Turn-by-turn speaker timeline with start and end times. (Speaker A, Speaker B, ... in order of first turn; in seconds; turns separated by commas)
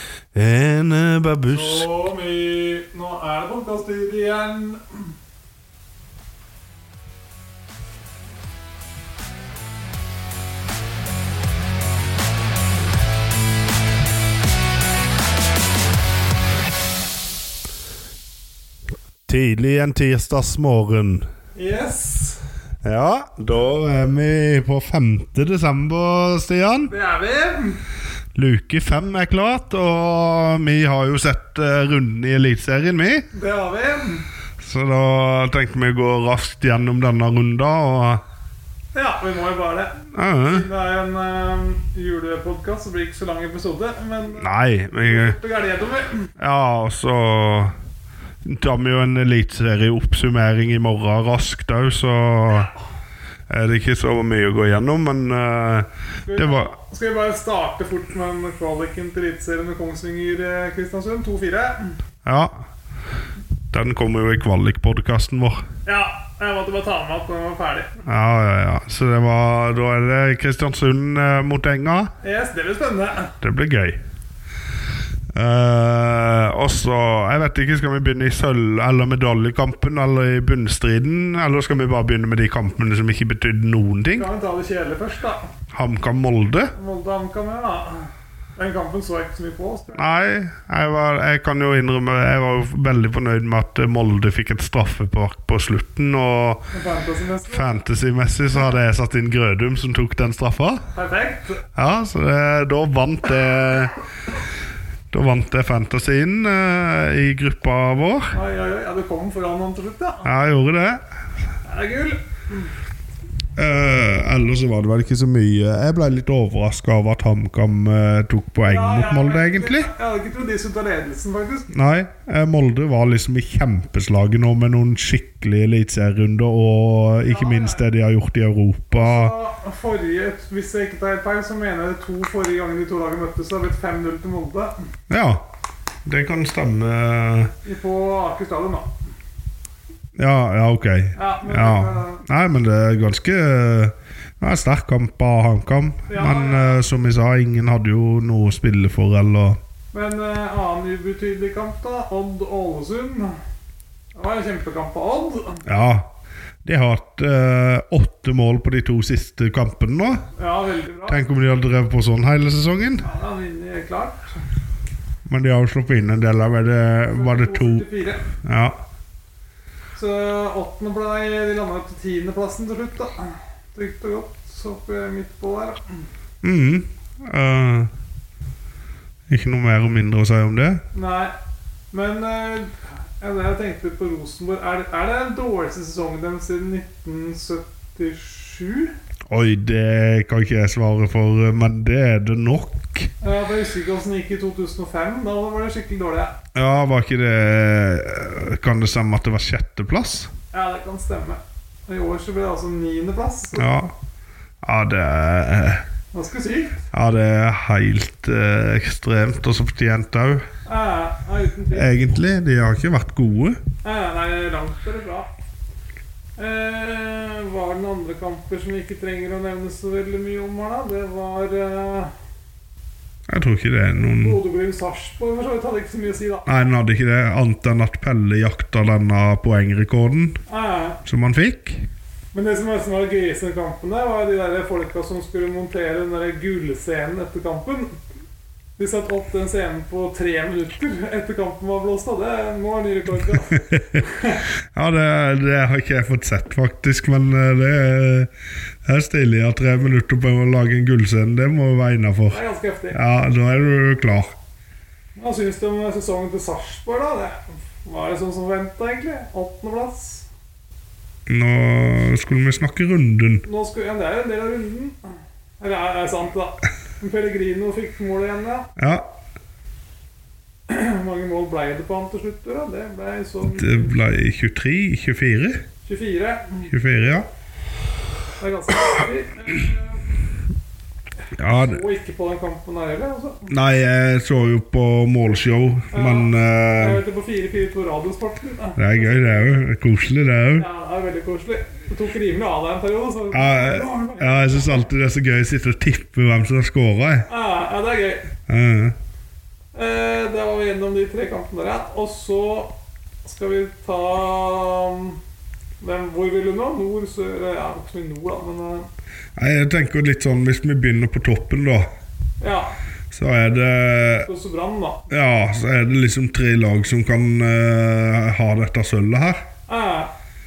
Speaker A: 0.3-1.9, Speaker B: 1.5-5.0, Speaker A: 19.3-21.2, Speaker B: 21.6-22.4, Speaker A: 22.8-26.9, Speaker B: 26.9-27.8, Speaker A: 28.4-33.3, Speaker B: 33.3-34.3, Speaker A: 34.6-38.2, Speaker B: 38.9-46.3, Speaker A: 40.1-40.7, Speaker A: 44.4-45.4, Speaker A: 46.4-47.7, Speaker A: 48.5-52.7, Speaker B: 52.5-52.7, Speaker A: 53.5-56.7, Speaker B: 56.2-61.9, Speaker A: 62.3-62.5, Speaker A: 63.7-65.6, Speaker B: 65.9-67.9, Speaker A: 68.0-72.1, Speaker B: 72.2-73.3, Speaker A: 73.4-74.0, Speaker A: 75.3-84.3, Speaker B: 84.2-85.5, Speaker A: 85.7-86.7, Speaker B: 86.8-90.2, Speaker A: 89.9-96.6, Speaker B: 96.7-97.8, Speaker A: 97.5-100.8, Speaker B: 100.9-101.6, Speaker A: 101.8-104.0, Speaker A: 105.1-108.3, Speaker B: 108.3-110.3, Speaker A: 110.2-111.0, Speaker B: 111.7-112.7, Speaker A: 113.6-119.9, Speaker B: 118.6-121.7, Speaker A: 121.7-129.3, Speaker B: 127.2-127.8, Speaker B: 128.9-134.7, Speaker A: 135.1-135.4, Speaker A: 136.1-137.5, Speaker B: 137.6-138.9, Speaker A: 140.2-149.6, Speaker B: 141.2-142.2, Speaker B: 146.1-146.8, Speaker B: 149.9-153.4, Speaker B: 154.2-155.6, Speaker A: 155.7-156.1, Speaker A: 156.6-160.2, Speaker B: 160.3-161.2, Speaker A: 161.1-163.1, Speaker B: 163.0-164.3, Speaker A: 165.3-167.9, Speaker B: 167.1-168.3, Speaker A: 168.4-168.8, Speaker B: 169.9-176.1, Speaker A: 176.4-177.9, Speaker A: 179.3-180.8, Speaker B: 180.9-181.3, Speaker B: 181.9-188.9, Speaker A: 189.3-193.1, Speaker B: 193.2-196.4, Speaker A: 196.6-200.3, Speaker B: 200.5-203.7, Speaker A: 203.6-203.9, Speaker A: 204.6-205.8, Speaker B: 206.1-206.8, Speaker A: 206.9-210.4, Speaker B: 210.7-211.9, Speaker A: 211.7-213.6, Speaker B: 213.8-215.3, Speaker B: 216.4-222.1, Speaker A: 223.3-224.4, Speaker B: 224.0-226.5, Speaker A: 226.5-230.4, Speaker B: 230.5-231.0, Speaker A: 231.1-231.8, Speaker B: 232.3-237.9, Speaker B: 238.8-244.4, Speaker A: 243.3-244.0, Speaker A: 244.8-248.3, Speaker A: 248.9-252.4, Speaker B: 252.3-253.0, Speaker A: 252.9-254.3, Speaker B: 255.2-260.3, Speaker A: 261.3-263.4, Speaker B: 263.4-268.7, Speaker A: 268.8-269.1, Speaker B: 270.7-274.0, Speaker A: 273.4-275.6, Speaker B: 275.9-276.7, Speaker A: 276.7-277.3, Speaker B: 278.4-280.0, Speaker A: 281.4-281.8, Speaker B: 281.4-283.5, Speaker A: 283.5-287.0, Speaker B: 285.9-289.6, Speaker A: 288.8-290.7, Speaker B: 290.6-294.9, Speaker A: 293.3-297.3, Speaker B: 297.3-298.3, Speaker A: 298.5-298.9, Speaker B: 299.7-302.7, Speaker B: 303.2-305.2, Speaker B: 305.8-308.9, Speaker A: 309.4-311.9, Speaker B: 312.4-312.8, Speaker A: 313.1-314.3, Speaker B: 314.1-315.1, Speaker A: 315.1-319.4, Speaker B: 319.7-320.1